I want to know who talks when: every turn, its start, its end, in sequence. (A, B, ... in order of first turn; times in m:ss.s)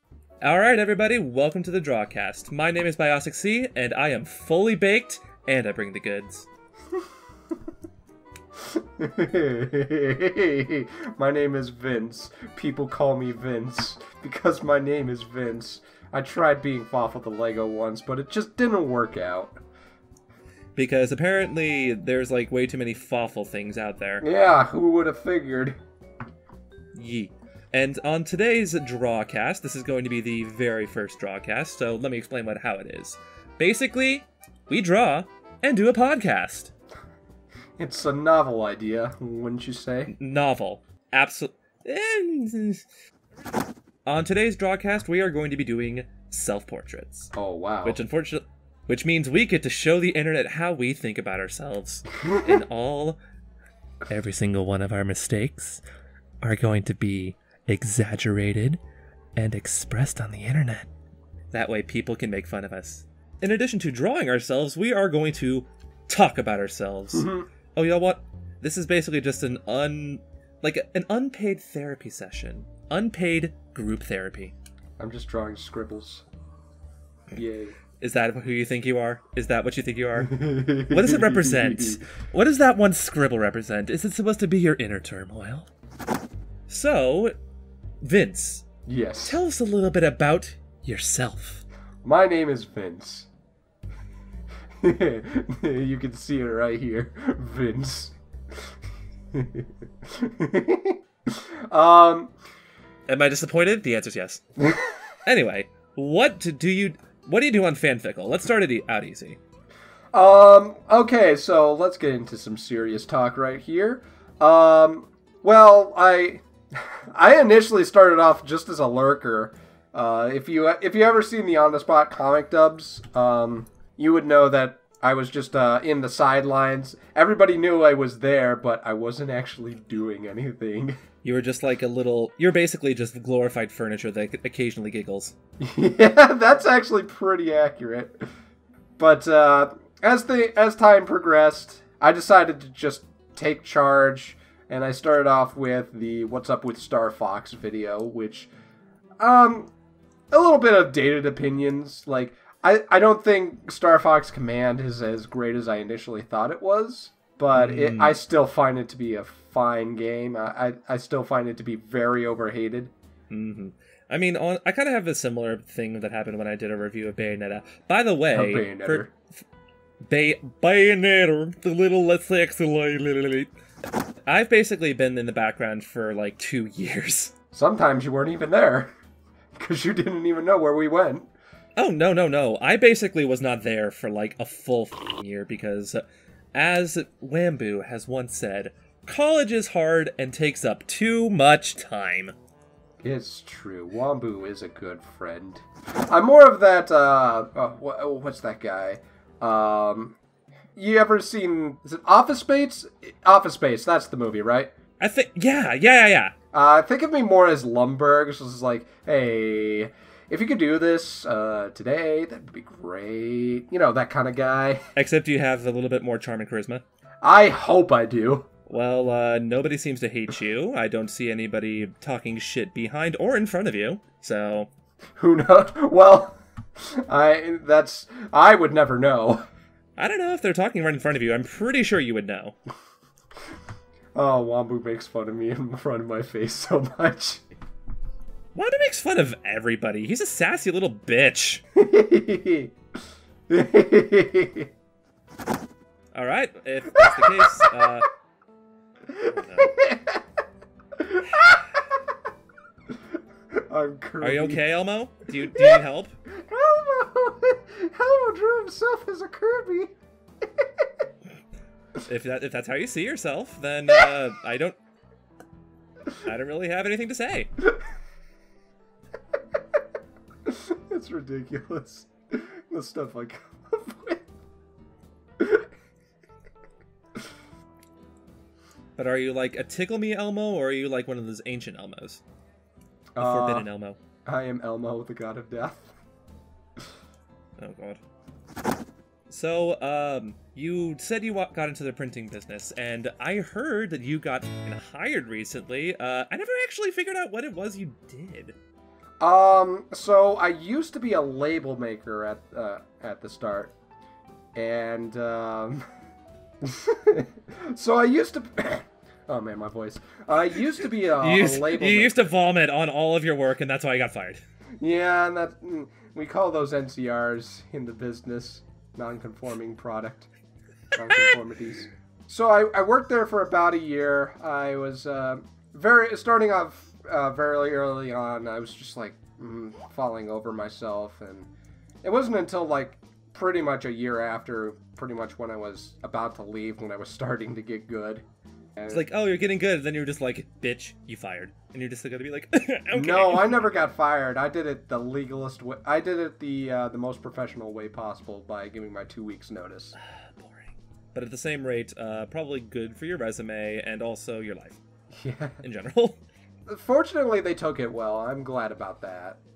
0:00.4-0:06.5 A
0:08.8-0:19.6 B
0:20.8-0:24.2 A
0:24.2-0:25.8 B
0:26.9-0:36.7 A
0:37.8-0:40.1 B
0:40.1-0:42.8 A
0:44.1-0:47.3 A
0:47.3-0:48.0 B
0:47.8-0:53.2 A
0:54.1-0:55.8 A
0:56.4-0:58.8 A
0:59.4-1:00.9 A
1:01.5-1:14.5 A
1:07.1-1:07.5 B
1:15.0-1:16.2 B
1:17.3-1:17.8 B
1:18.0-1:25.7 A
1:20.2-1:22.0 B
1:26.7-1:27.4 A
1:28.0-1:28.6 A
1:28.8-1:29.4 B
1:29.2-1:31.6 A
1:32.0-1:33.3 B
1:34.8-1:38.1 B
1:39.3-1:41.0 B
1:41.7-1:42.3 B
1:43.1-1:44.4 A
1:44.6-1:45.0 B
1:45.2-1:49.4 A
1:50.1-2:11.0 B
2:11.2-2:15.3 A
2:15.6-2:18.2 B
2:19.0-2:28.5 B
2:29.2-2:29.7 B
2:30.3-2:42.9 B
2:37.5-2:38.2 A
2:43.3-2:49.1 A
2:48.3-2:49.1 B
2:50.0-2:53.5 A
2:54.3-2:57.3 A
2:57.5-2:58.9 B
2:59.6-3:01.3 B
3:01.8-3:06.0 A
3:06.5-3:12.3 A
3:13.0-3:20.2 B
3:20.8-3:24.7 B
3:25.0-3:26.3 A
3:26.5-3:34.8 B
3:35.0-3:36.8 A
3:37.2-3:38.5 B
3:38.7-3:44.7 A
3:45.2-3:49.4 B
3:50.0-3:52.5 A
3:54.1-3:57.4 B
3:58.5-4:01.6 A
4:01.8-4:02.7 B
4:03.5-4:04.7 B
4:06.1-4:08.1 A
4:07.2-4:07.4 B
4:09.1-4:10.2 B
4:09.3-4:09.8 A
4:11.0-4:11.8 B
4:13.7-4:14.6 B
4:14.2-4:16.1 A
4:15.5-4:19.9 B
4:22.0-4:24.8 A
4:26.2-4:27.5 A
4:30.5-4:34.2 B
4:35.4-4:35.6 B
4:39.0-4:42.2 A
4:43.1-4:43.7 B
4:43.2-4:44.0 A
4:44.2-4:45.9 B
4:47.6-4:48.0 A
4:49.3-4:58.6 A
4:59.2-5:03.7 B
5:04.5-5:05.8 B
5:06.6-5:12.3 B
5:11.0-5:14.4 A
5:14.8-5:20.3 B
5:20.9-5:31.5 B
5:32.0-5:38.2 B
5:38.8-5:39.0 B
5:38.9-5:43.7 A
5:42.9-5:50.0 B
5:50.0-5:54.8 A
5:55.1-5:55.6 B
5:55.6-5:56.2 A
5:56.7-5:59.4 B